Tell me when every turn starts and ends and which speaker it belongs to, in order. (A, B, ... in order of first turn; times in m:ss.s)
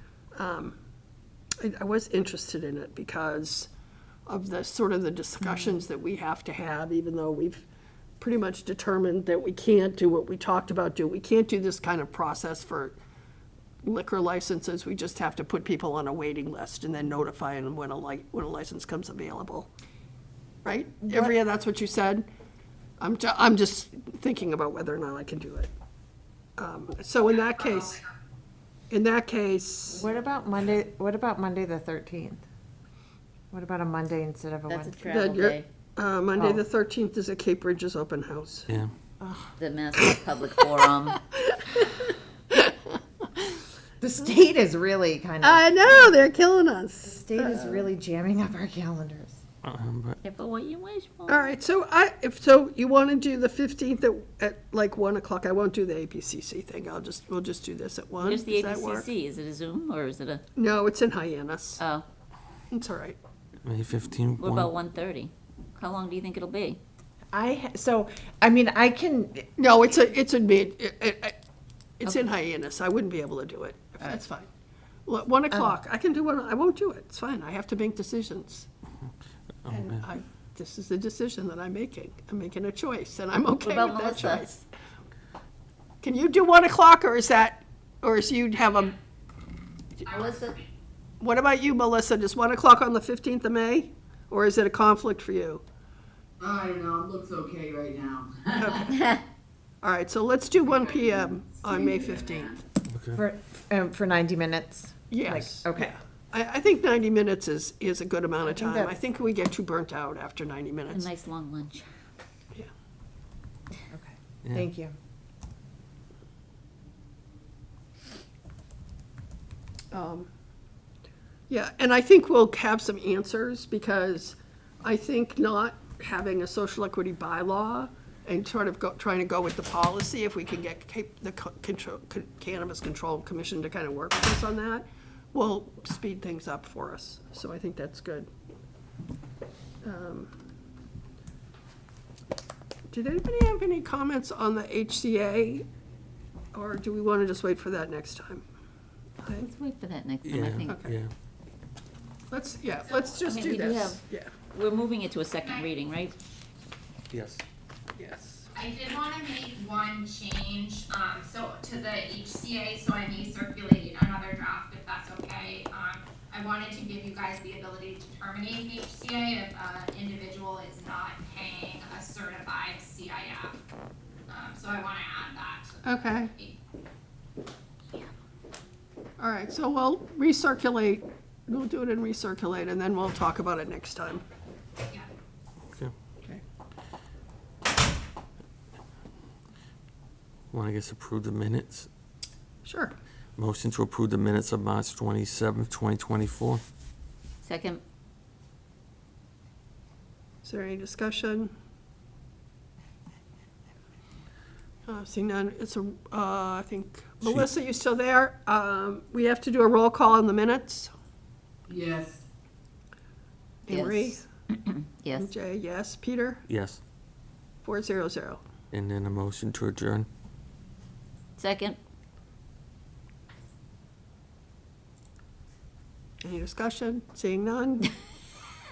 0:00.3-0:00.8 A
0:01.6-0:03.7 A
0:04.3-0:07.6 A
0:08.2-0:13.0 A
0:13.8-0:19.7 A
0:20.6-0:22.3 A
0:21.0-0:21.4 B
0:23.0-0:25.7 A
0:26.6-0:28.0 A
0:28.9-0:30.1 A
0:29.9-0:32.4 B
0:33.5-0:35.0 B
0:34.7-0:35.7 C
0:35.1-0:38.7 A
0:36.4-0:36.6 B
0:39.2-0:39.5 B
0:39.6-0:41.2 C
0:41.4-0:42.8 A
0:44.0-0:46.1 B
0:45.4-0:47.9 A
0:47.1-0:49.4 B
0:49.6-0:50.2 D
0:50.2-0:51.5 C
0:51.3-0:59.1 A
0:58.2-1:00.4 C
1:00.6-1:01.8 A
1:01.8-1:02.0 C
1:02.7-1:03.2 A
1:03.6-1:04.7 D
1:04.4-1:06.8 C
1:07.3-1:09.5 B
1:09.6-1:11.4 A
1:12.0-1:14.5 A
1:15.1-1:18.7 A
1:19.6-1:20.0 D
1:19.7-1:24.6 A
1:23.6-1:24.4 C
1:26.0-1:29.0 A
1:30.1-1:30.4 E
1:30.1-1:30.6 C
1:31.2-1:35.6 A
1:36.4-1:38.9 F
1:38.5-1:38.9 A
1:39.8-1:42.6 A
1:40.7-1:42.5 F
1:42.9-1:43.2 D
1:43.2-1:46.0 B
1:45.1-1:51.1 A
1:48.4-1:49.0 B
1:50.9-1:51.9 C
1:53.9-1:55.0 B
1:59.9-2:00.3 A
2:01.5-2:18.3 A
2:19.8-2:20.3 A
2:22.9-2:25.7 A
2:26.5-2:28.4 A
2:29.2-2:29.5 A
2:29.4-2:30.8 C
2:30.2-2:31.1 D
2:30.7-2:31.0 A
2:32.3-2:34.3 A
2:33.2-2:34.0 C
2:34.5-2:36.2 C
2:37.1-2:37.4 D
2:38.0-2:38.5 A
2:38.6-2:53.6 E
2:54.3-2:56.6 E
2:55.8-2:56.3 A
2:59.2-3:04.2 A
3:10.5-3:11.9 D
3:12.6-3:13.0 A
3:13.4-3:16.6 D
3:17.4-3:17.8 C
3:20.4-3:21.5 A
3:24.9-3:30.9 A
3:31.7-3:32.2 F
3:33.7-3:34.2 A
3:33.7-3:35.3 C
3:35.2-3:36.4 A
3:36.5-3:36.8 D
3:37.6-3:38.4 A
3:38.7-3:40.1 D
3:41.4-3:41.8 C
3:46.2-3:47.9 A